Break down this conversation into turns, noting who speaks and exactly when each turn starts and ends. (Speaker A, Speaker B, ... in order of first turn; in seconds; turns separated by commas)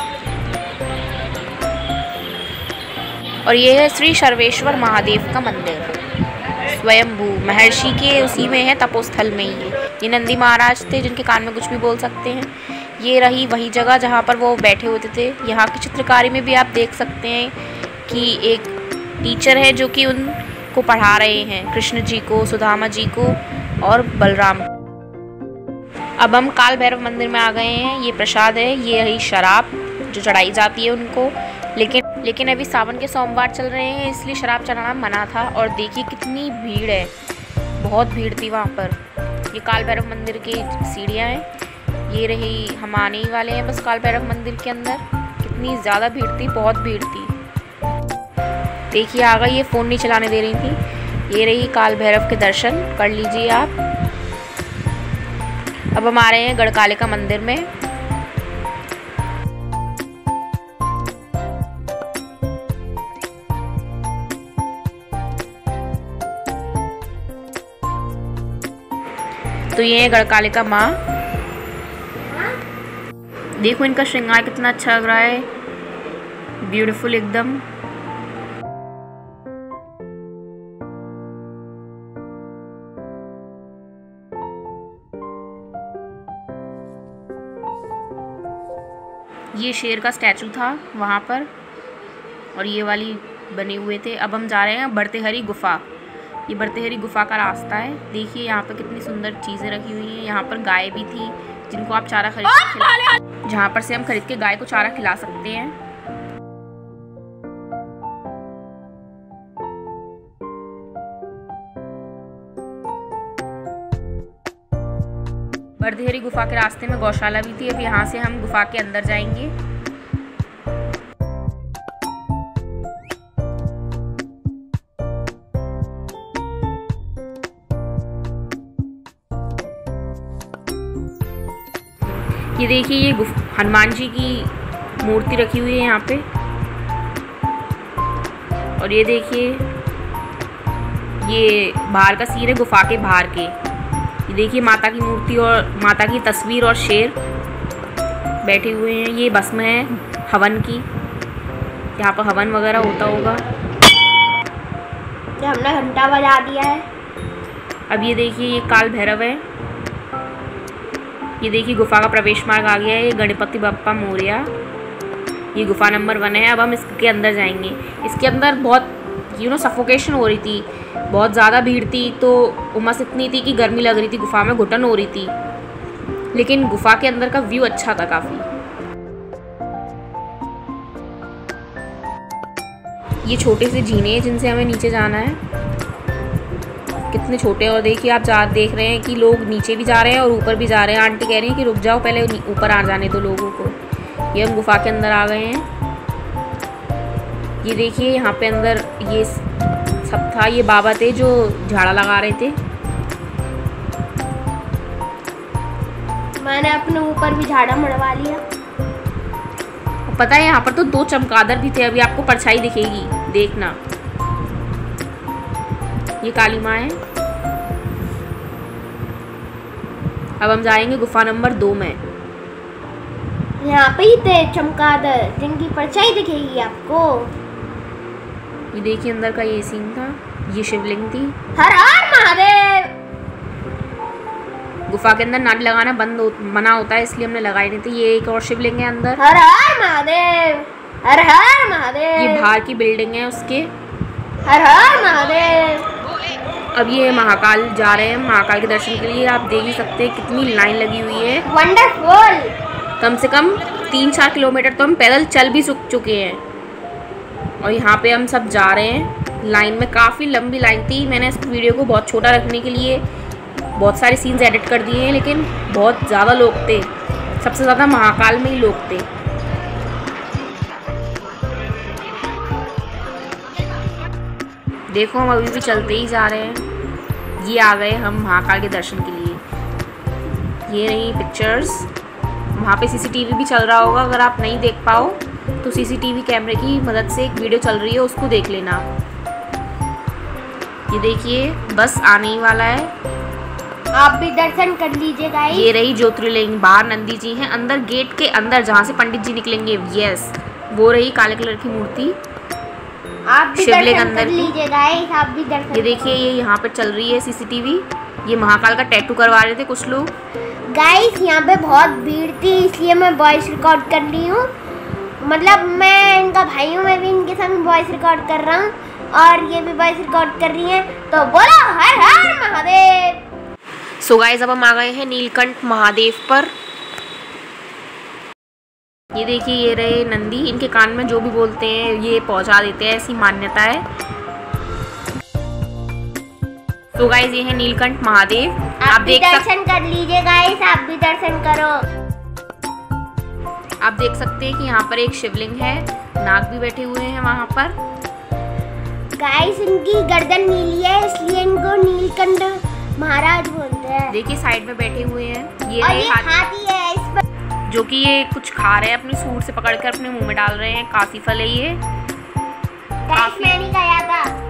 Speaker A: 3.4-5.9, Speaker A: 6.7-24.7, Speaker A: 26.2-37.1, Speaker A: 37.8-39.0, Speaker A: 39.5-41.5, Speaker A: 42.1-47.4, Speaker A: 48.9-53.8, Speaker A: 55.9-57.7, Speaker A: 69.7-71.0, Speaker B: 72.3-72.6, Speaker A: 73.6-75.5, Speaker A: 76.6-77.6, Speaker A: 89.5-91.5, Speaker A: 92.5-95.9, Speaker A: 96.5-105.8, Speaker A: 115.8-119.5, Speaker A: 132.6-136.2, Speaker A: 138.8-139.7, Speaker A: 141.2-143.6, Speaker A: 144.3-147.2, Speaker A: 148.4-150.9, Speaker A: 152.0-153.4, Speaker B: 155.4-156.8, Speaker A: 157.9-159.4, Speaker A: 161.4-164.5, Speaker A: 165.5-175.3, Speaker A: 176.3-178.5, Speaker A: 183.2-185.4, Speaker A: 187.1-193.8, Speaker A: 194.3-195.7, Speaker A: 197.6-199.4, Speaker A: 200.0-202.6, Speaker B: 206.4-208.4, Speaker A: 210.1-213.8, Speaker A: 216.2-217.0, Speaker A: 220.4-222.0, Speaker B: 223.6-227.3, Speaker A: 228.7-231.3, Speaker B: 231.6-232.9, Speaker A: 234.9-239.2, Speaker B: 239.2-242.5, Speaker A: 242.2-243.7, Speaker B: 244.4-245.9, Speaker A: 246.7-251.4, Speaker B: 251.4-252.5, Speaker A: 253.0-256.4, Speaker A: 257.6-263.0, Speaker A: 263.8-266.9, Speaker A: 267.4-269.1, Speaker A: 274.9-276.7, Speaker A: 277.4-279.4, Speaker A: 280.7-281.9, Speaker A: 282.5-288.9, Speaker A: 290.9-292.9, Speaker B: 293.9-295.7, Speaker A: 295.5-302.2, Speaker B: 303.3-306.1, Speaker A: 303.6-304.5, Speaker A: 305.7-310.1, Speaker B: 310.7-314.5, Speaker B: 315.2-323.2, Speaker A: 324.0-326.5, Speaker A: 329.1-333.9, Speaker A: 336.9-339.5, Speaker B: 338.8-341.8, Speaker A: 343.8-347.8, Speaker B: 349.2-354.1, Speaker A: 354.1-356.4, Speaker B: 355.8-357.2, Speaker A: 357.7-361.8, Speaker B: 363.1-364.3, Speaker A: 363.1-363.5